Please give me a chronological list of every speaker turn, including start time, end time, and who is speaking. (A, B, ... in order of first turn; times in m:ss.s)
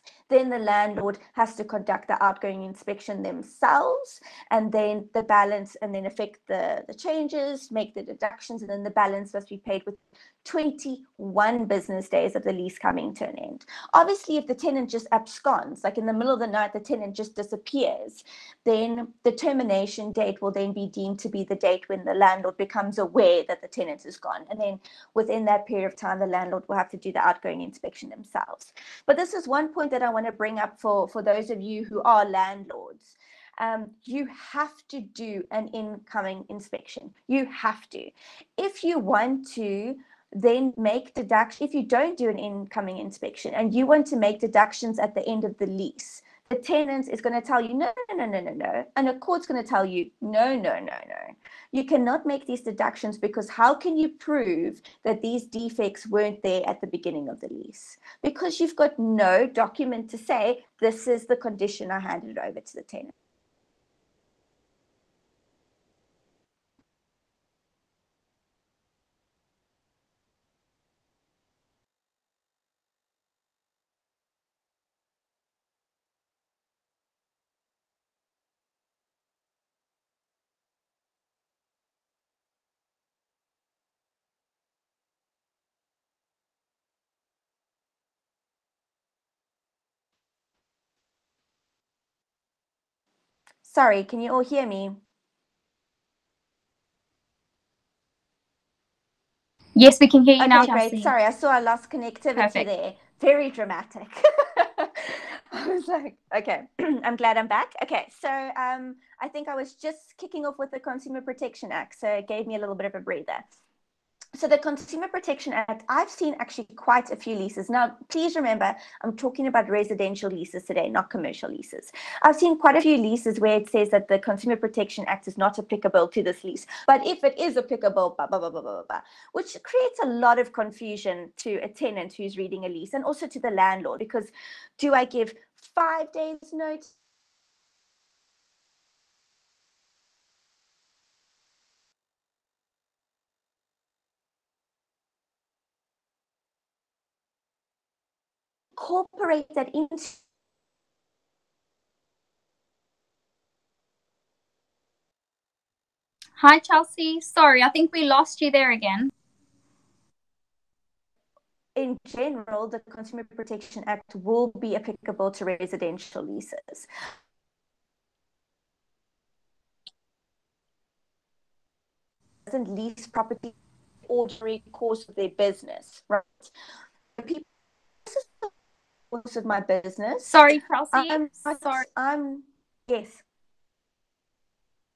0:00.3-1:03.1 A
1:33.6-1:35.0 A
1:39.8-1:41.1 B
1:40.4-1:53.4 A
1:42.4-1:42.7 B
1:54.4-2:16.9 A
2:28.8-2:30.2 A
2:36.4-2:39.1 B
2:41.8-2:46.9 A
2:52.5-2:53.6 A
2:54.1-2:56.5 A
2:57.2-2:57.5 A
2:58.1-2:58.5 A
2:59.1-3:00.4 A
3:00.3-3:01.8 B
3:00.9-3:03.2 A